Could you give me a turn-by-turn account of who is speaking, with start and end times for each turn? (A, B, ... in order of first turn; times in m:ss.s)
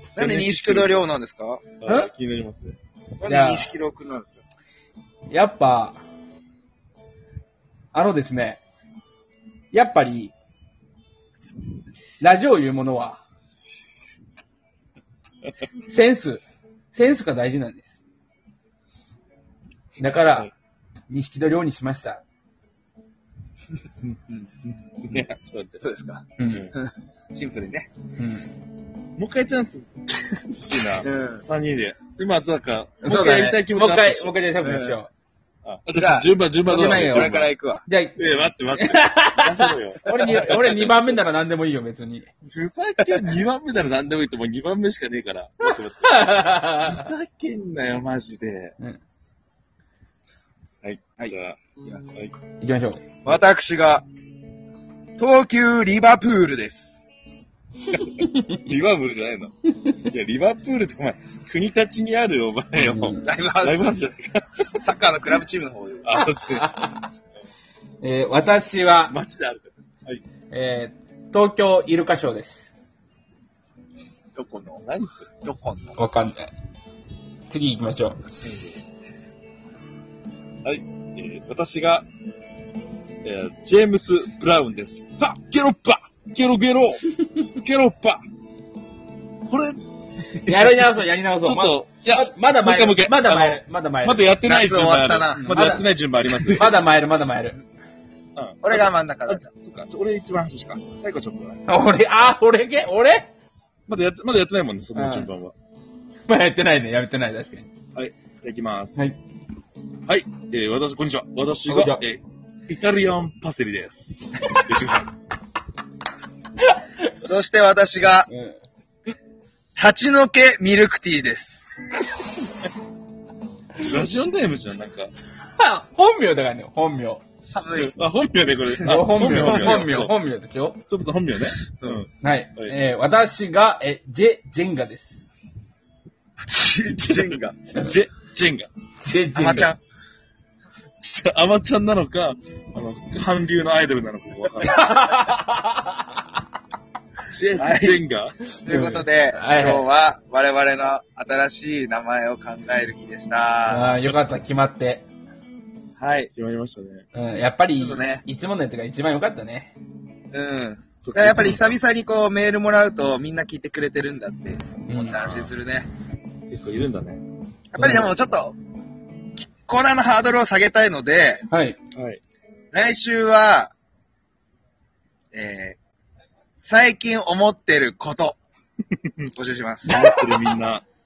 0:00.2-0:01.6 A
0:00.2-0:01.0 B
0:01.8-0:02.8 B
0:03.2-0:04.4 A
0:03.2-0:03.7 C
0:05.3-0:06.0 C
0:07.9-0:08.6 C
0:09.7-0:10.3 C
0:12.2-0:13.2 C
0:15.9-0:16.4 C
0:16.9-0:17.9 C
0:20.0-0:20.5 C
0:20.2-0:20.5 B
0:21.1-0:22.2 C
0:24.0-0:25.2 A
0:25.1-0:25.9 B
0:25.8-0:27.9 A
0:26.4-0:26.7 C
0:26.5-0:26.7 B
0:28.2-0:28.4 C
0:29.2-0:34.4 B
0:31.0-0:31.4 A
0:33.0-0:35.1 C
0:34.6-0:35.0 A
0:35.6-0:37.5 B
0:36.0-0:37.8 A
0:36.7-0:37.3 C
0:37.8-0:42.3 C
0:38.2-0:41.2 B
0:40.1-0:40.5 A
0:42.4-0:48.7 B
0:46.0-0:47.0 C
0:50.8-0:51.6 B
0:51.2-0:52.0 A
0:52.6-0:53.0 C
0:53.2-0:54.0 A
0:55.2-0:56.9 A
0:58.5-1:04.4 B
1:02.8-1:03.3 C
1:03.2-1:04.0 A
1:04.8-1:06.2 A
1:06.0-1:06.8 B
1:06.1-1:07.0 C
1:08.0-1:09.2 C
1:09.1-1:10.2 B
1:10.5-1:12.7 C
1:14.4-1:14.7 A
1:14.6-1:15.3 B
1:15.4-1:16.0 A
1:16.0-1:16.5 C
1:17.5-1:18.2 C
1:18.4-1:18.7 B
1:20.6-1:22.1 B
1:23.2-1:28.2 B
1:29.5-1:29.8 B
1:30.3-1:30.8 B
1:30.4-1:34.3 C
1:31.4-1:36.8 B
1:34.4-1:35.8 A
1:35.4-1:35.9 C
1:36.5-1:37.6 C
1:38.4-1:41.6 B
1:38.6-1:39.5 A
1:41.7-1:43.3 C
1:43.9-1:45.5 B
1:45.0-1:45.3 C
1:46.3-1:47.7 C
1:48.0-1:49.0 B
1:50.1-1:55.3 B
1:51.7-1:52.0 C
1:57.2-1:58.3 A
1:58.3-1:58.6 C
1:59.8-2:01.6 A
2:03.8-2:05.1 B
2:05.6-2:07.2 C
2:07.5-2:07.9 A
2:07.8-2:10.1 B
2:08.9-2:10.8 C
2:10.9-2:12.8 B
2:12.2-2:15.2 C
2:16.5-2:17.5 A
2:17.0-2:18.7 B
2:19.0-2:19.7 C
2:19.3-2:19.8 A
2:21.0-2:24.8 B
2:24.6-2:26.0 C
2:27.3-2:28.4 B
2:27.6-2:28.0 A
2:28.6-2:34.0 A
2:28.7-2:29.9 C
2:33.7-2:35.0 C
2:36.0-2:36.3 A
2:36.3-2:37.0 B
2:37.1-2:39.7 C
2:37.8-2:38.2 A
2:40.3-2:45.9 A
2:41.0-2:41.8 B
2:44.9-2:45.2 C
2:45.1-2:45.5 B
2:46.5-2:47.2 B
2:47.7-2:48.6 A
2:47.8-2:48.1 C
2:49.4-2:51.4 A
2:51.5-2:51.8 C
2:51.9-2:52.2 B
2:52.7-2:53.7 A
2:55.3-2:55.8 A
2:56.6-2:58.4 A
2:59.3-2:59.9 A
2:59.9-3:00.2 C
2:59.9-3:00.8 B